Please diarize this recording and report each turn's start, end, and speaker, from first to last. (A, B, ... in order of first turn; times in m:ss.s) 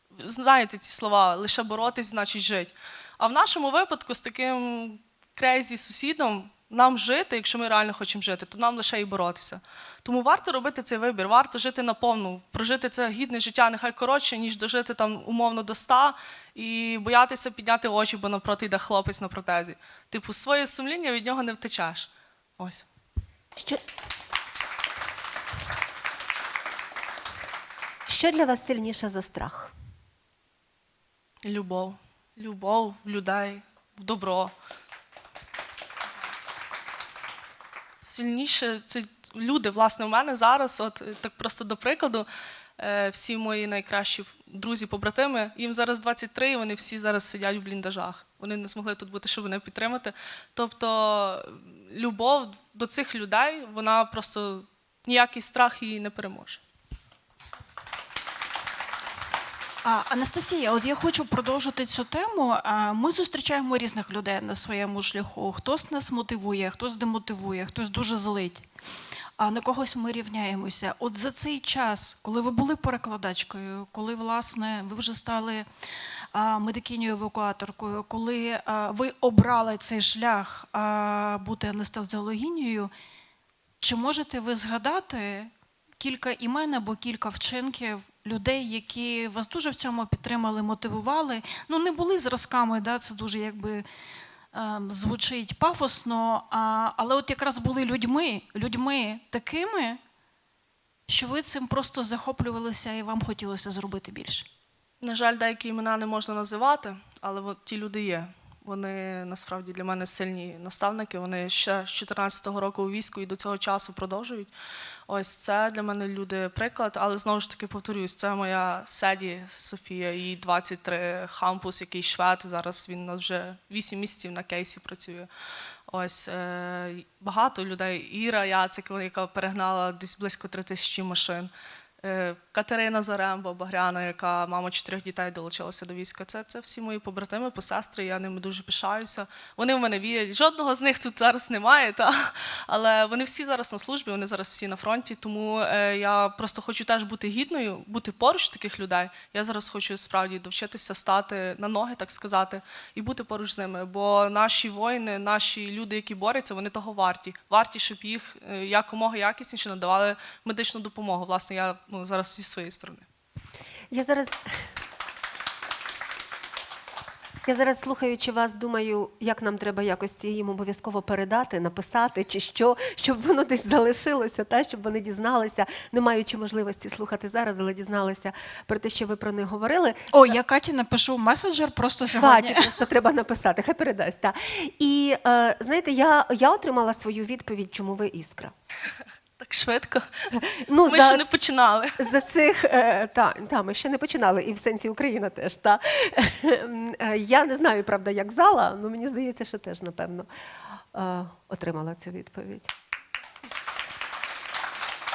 0:00.2-0:22.9 A
0:23.6-0:23.8 B
0:28.1-0:29.7 B
0:31.4-0:34.5 A
0:38.0-0:42.3 A
0:42.8-0:56.6 A
0:59.8-1:08.7 C
1:09.4-1:15.7 C
1:16.3-1:22.9 C
1:23.8-1:33.9 C
1:34.5-1:40.0 C
1:41.1-1:44.5 C
1:45.0-1:54.5 A
1:55.1-2:05.3 A
2:05.9-2:11.5 A
2:12.0-2:43.1 A
2:43.9-2:44.6 B
2:47.5-3:00.4 B
3:00.1-3:02.8 C
3:02.2-3:08.5 B
3:09.4-3:12.0 A
3:10.6-3:11.3 B
3:12.0-3:20.3 B
3:20.9-3:22.7 B